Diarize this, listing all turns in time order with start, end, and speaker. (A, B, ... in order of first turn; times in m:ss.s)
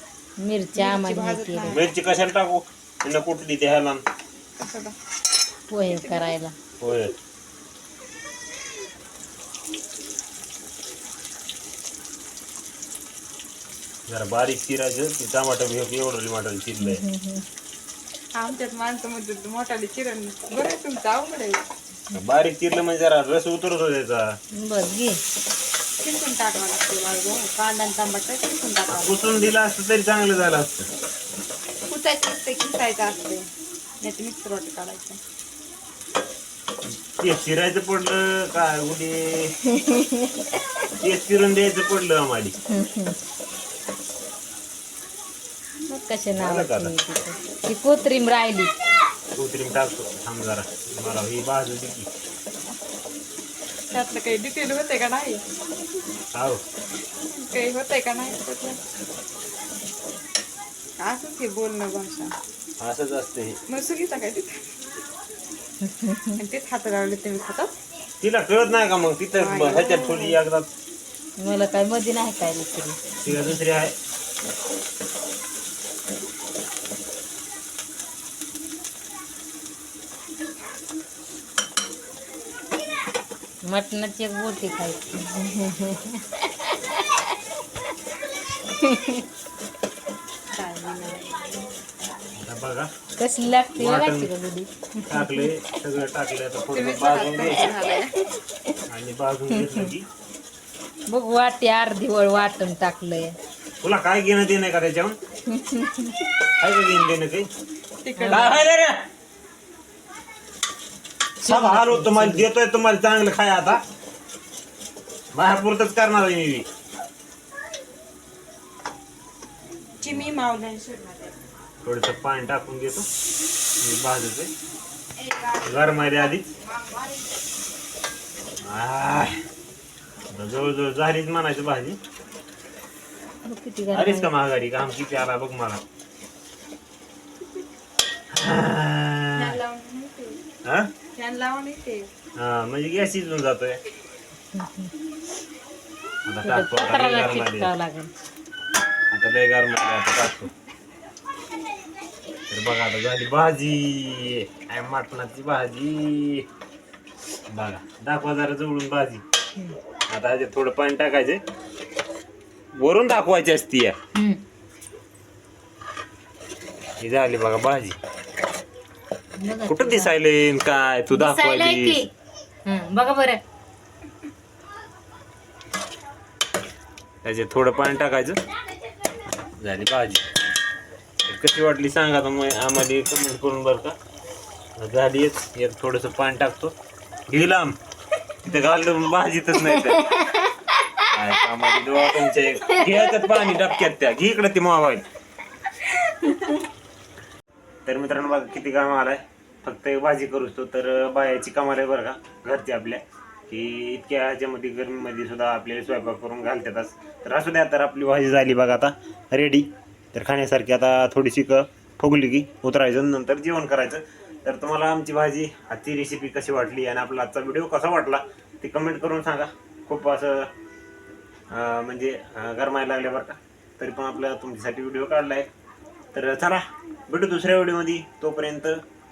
0:00.4-0:01.8 A
0:00.8-0:01.9 B
0:01.7-0:04.0 C
0:04.6-0:05.0 B
0:05.7-0:06.6 A
0:05.9-0:06.4 B
0:06.8-0:07.1 C
0:14.1-0:17.0 C
0:16.8-0:17.4 A
0:18.4-0:21.6 B
0:22.1-0:24.2 C
0:24.6-0:25.2 A
0:26.0-0:29.2 B
0:28.9-0:30.9 C
0:31.9-0:33.5 B
0:34.0-0:35.2 B
0:37.1-0:39.6 C
0:39.6-0:40.7 A
0:41.0-0:42.6 C
0:42.7-0:43.2 A
0:45.9-0:48.7 A
0:46.4-0:46.9 C
0:49.3-0:52.1 C
0:53.9-0:55.4 B
0:57.3-0:58.8 B
1:01.0-1:02.3 B
1:02.8-1:03.6 C
1:03.7-1:04.8 B
1:05.8-1:06.4 A
1:06.4-1:07.7 B
1:08.2-1:10.7 C
1:09.4-1:10.4 B
1:11.4-1:13.5 A
1:13.2-1:14.0 C
1:23.7-1:27.4 A
1:28.7-1:29.3 A
1:30.5-1:32.3 B
1:32.4-1:32.9 C
1:33.2-1:35.5 A
1:33.8-1:34.3 C
1:35.1-1:37.7 C
1:36.7-1:38.2 B
1:38.9-1:40.1 C
1:39.5-1:39.9 A
1:41.1-1:43.4 A
1:43.8-1:45.2 C
1:45.5-1:46.2 A
1:46.6-1:47.5 C
1:48.0-1:48.7 B
1:48.2-1:48.6 A
1:48.3-1:49.0 C
1:51.4-1:52.5 A
1:51.4-1:53.8 C
1:55.3-1:56.7 C
2:00.0-2:01.3 B
2:01.8-2:03.1 C
2:03.8-2:04.5 C
2:05.2-2:07.4 B
2:05.6-2:06.5 C
2:08.6-2:09.4 C
2:10.3-2:12.0 C
2:13.4-2:14.3 A
2:13.9-2:15.8 C
2:18.3-2:19.6 C
2:19.4-2:20.4 B
2:20.6-2:20.9 C
2:21.2-2:22.1 B
2:22.4-2:23.8 C
2:24.5-2:24.9 A
2:26.3-2:27.7 C
2:26.4-2:28.1 A
2:29.1-2:30.5 C
2:32.5-2:36.5 C
2:37.5-2:39.2 C
2:40.1-2:41.4 C
2:42.8-2:44.0 C
2:44.2-2:44.4 A
2:47.0-2:48.0 C
2:49.4-2:50.1 A
2:49.7-2:52.0 C
2:51.1-2:52.1 A
2:52.7-2:53.4 A
2:57.2-2:58.4 C
2:59.4-3:00.3 C
3:01.3-3:04.0 C
3:04.8-3:06.7 C
3:07.3-3:07.8 C
3:08.4-3:10.1 C
3:09.6-3:13.7 A
3:11.1-3:15.0 C
3:16.0-3:16.6 A
3:17.9-3:40.5 C
3:41.5-3:45.5 C
3:46.1-3:48.8 C